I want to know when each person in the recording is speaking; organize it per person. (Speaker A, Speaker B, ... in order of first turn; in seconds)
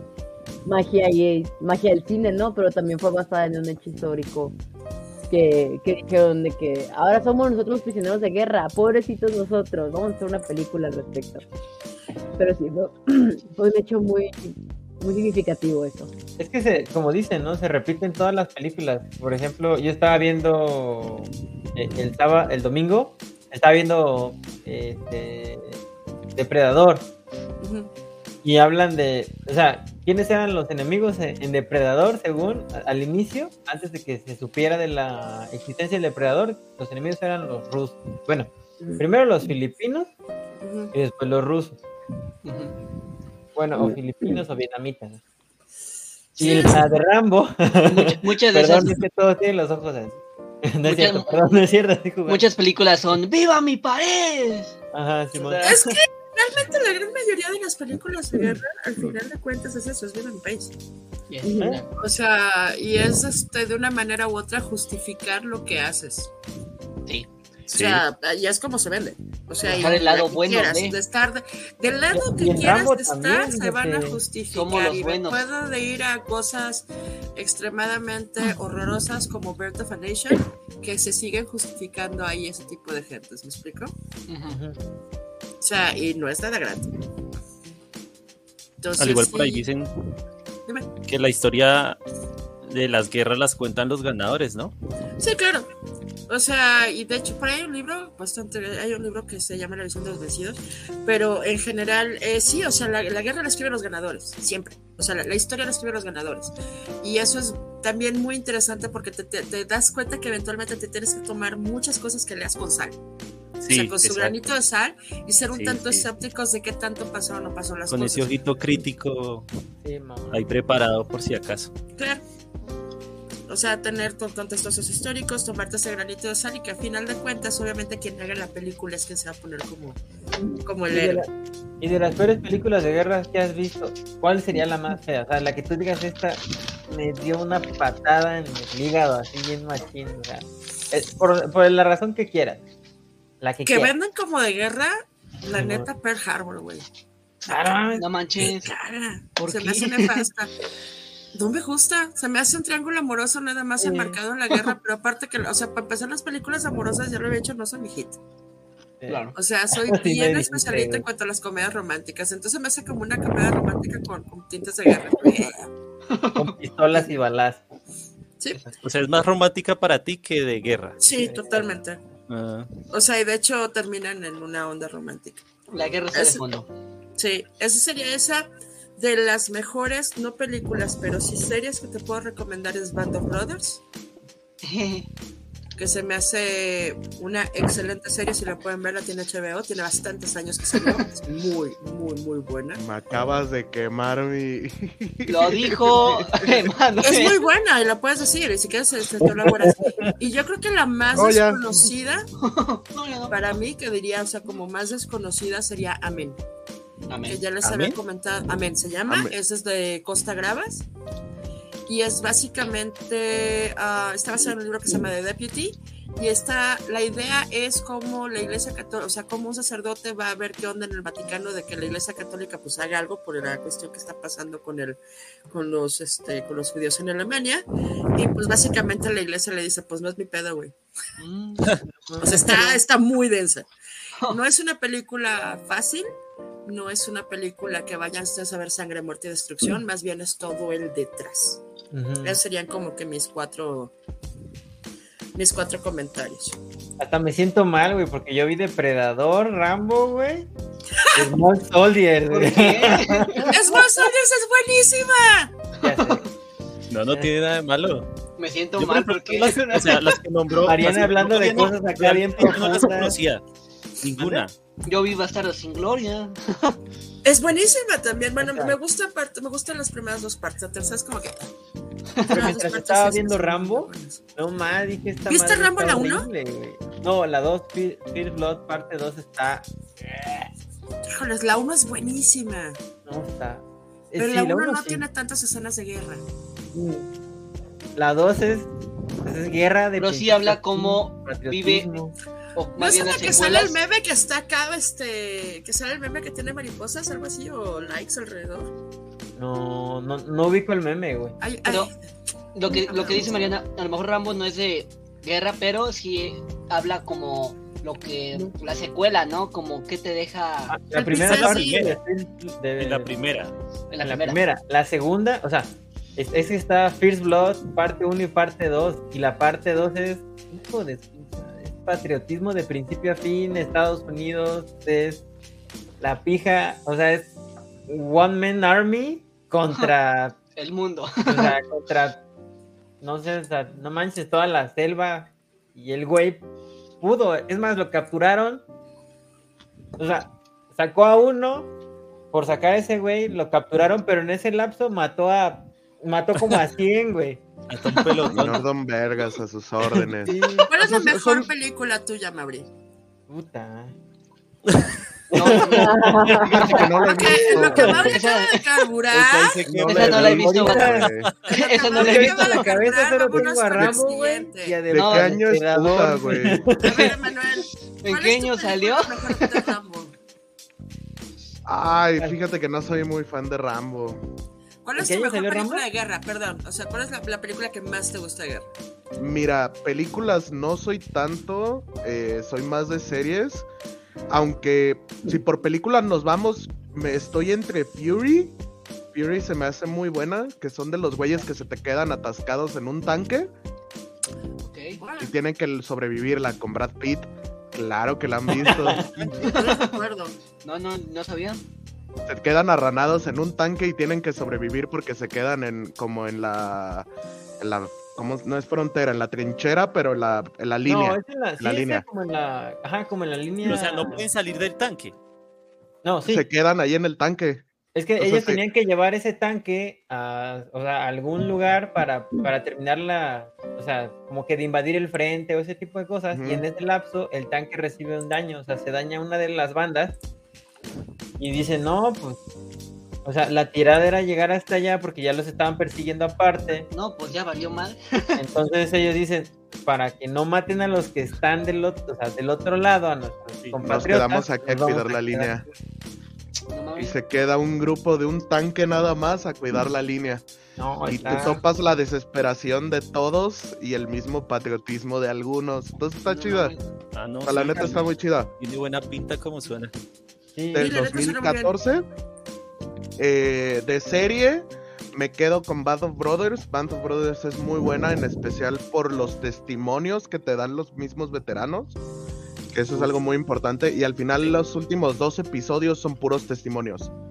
Speaker A: 0.7-4.6, 5.3-11.4, 12.4-16.1, 61.4-61.8, 355.8-356.9
Speaker B: 16.4-25.8, 26.4-27.1, 28.4-40.1, 40.9-41.8, 43.6-45.2, 46.4-52.5, 54.9-55.7, 72.1-74.2, 84.5-84.8, 119.8-120.5, 130.9-131.3, 131.8-142.6, 143.4-143.9, 145.6-145.9, 147.5-148.1, 153.8-154.2, 159.0-161.1, 166.3-167.6, 171.1-171.8, 232.1-232.8, 241.9-242.4, 247.0-250.5, 251.1-253.6, 255.8-256.3, 260.6-263.2, 268.4-268.8, 272.3-280.5, 283.1-285.1, 288.0-288.7, 289.2-292.1, 299.4-301.4, 310.7-313.1, 314.0-325.2, 326.0-327.3, 327.9-330.4, 331.3-332.2, 333.0-336.4, 337.0-338.6, 340.0-341.7, 342.3-347.4, 350.2-350.7, 353.3-353.9, 355.3-358.1, 361.9-367.1, 375.0-375.9, 398.7-399.2, 410.9-414.3, 416.0-416.4, 417.9-430.1, 431.4-432.4, 433.2-436.9, 438.4-445.6, 450.8-451.6, 460.6-460.9
Speaker C: 27.6-27.9, 40.6-40.9, 46.4-46.7, 55.6-60.7, 62.0-66.3, 67.7-83.9, 85.6-86.9, 88.8-89.7, 95.2-95.7, 96.3-113.0, 113.7-118.7, 123.5-130.0, 130.6-131.2, 143.7-146.9, 148.5-150.5, 151.3-158.2, 159.3-165.7, 168.4-168.7, 171.0-172.0, 172.9-175.4, 176.1-176.4, 177.2-183.8, 185.8-192.8, 197.0-202.3, 203.3-206.4, 207.3-210.8, 211.9-227.6, 228.2-230.8, 232.2-233.7, 234.3-236.1, 236.7-241.6, 242.2-243.9, 245.3-246.6, 251.0-251.2, 253.4-255.5, 267.2-271.5, 272.2-274.2, 275.3-276.3, 281.1-282.8, 284.2-286.2, 292.8-298.7, 301.4-301.9, 302.7-303.3, 310.9-311.9, 350.7-352.7, 357.0-359.6, 361.5-364.8, 366.8-370.1, 374.8-378.7, 395.0-395.3, 399.4-400.4, 460.8-461.7
Speaker D: 42.5-42.8, 47.9-49.0, 50.9-51.6, 52.3-54.8, 55.4-56.0, 61.3-61.9, 69.7-71.0, 74.5-75.4, 84.3-84.6, 147.9-148.7, 149.4-150.3, 159.1-159.3, 166.1-166.5, 175.7-176.7, 184.6-185.1, 195.3-197.4, 202.4-203.3, 207.1-207.4, 231.2-231.8, 252.3-253.5, 255.8-256.3, 258.4-260.2, 264.9-266.8, 272.2-272.6, 290.0-291.9, 292.6-293.8, 301.7-301.9, 302.6-310.8, 313.9-314.4, 330.6-331.6, 347.9-348.6, 355.3-356.1, 357.8-358.9, 359.8-362.7, 364.9-365.4, 368.0-369.7, 394.6-395.0, 399.4-399.9, 400.6-401.6, 436.9-438.4, 446.7-447.2, 456.3-456.8
Speaker E: 67.7-68.0, 89.0-89.9, 91.1-92.0, 92.6-94.7, 113.6-114.4, 115.5-116.1, 117.9-119.5, 120.3-121.7, 168.8-171.0, 172.3-172.7, 207.6-208.0, 256.9-258.1, 258.8-263.4, 264.0-264.6, 311.1-312.0, 312.8-313.5, 347.7-348.6, 359.1-361.5, 413.6-415.1, 457.1-458.1, 458.6-459.9
Speaker F: 192.8-196.5, 201.1-201.6, 209.1-209.3, 348.3-351.5, 356.4-358.2, 359.2-361.3, 364.9-366.7, 371.7-374.2, 379.2-383.7, 384.3-388.6, 389.1-393.5, 395.2-399.3, 402.3-407.1, 407.6-412.1, 416.2-417.6, 418.2-418.6, 426.3-426.7, 443.8-445.6, 447.0-450.4, 451.1-456.8, 457.5-458.5, 460.7-462.1, 463.2-472.0, 472.7-477.1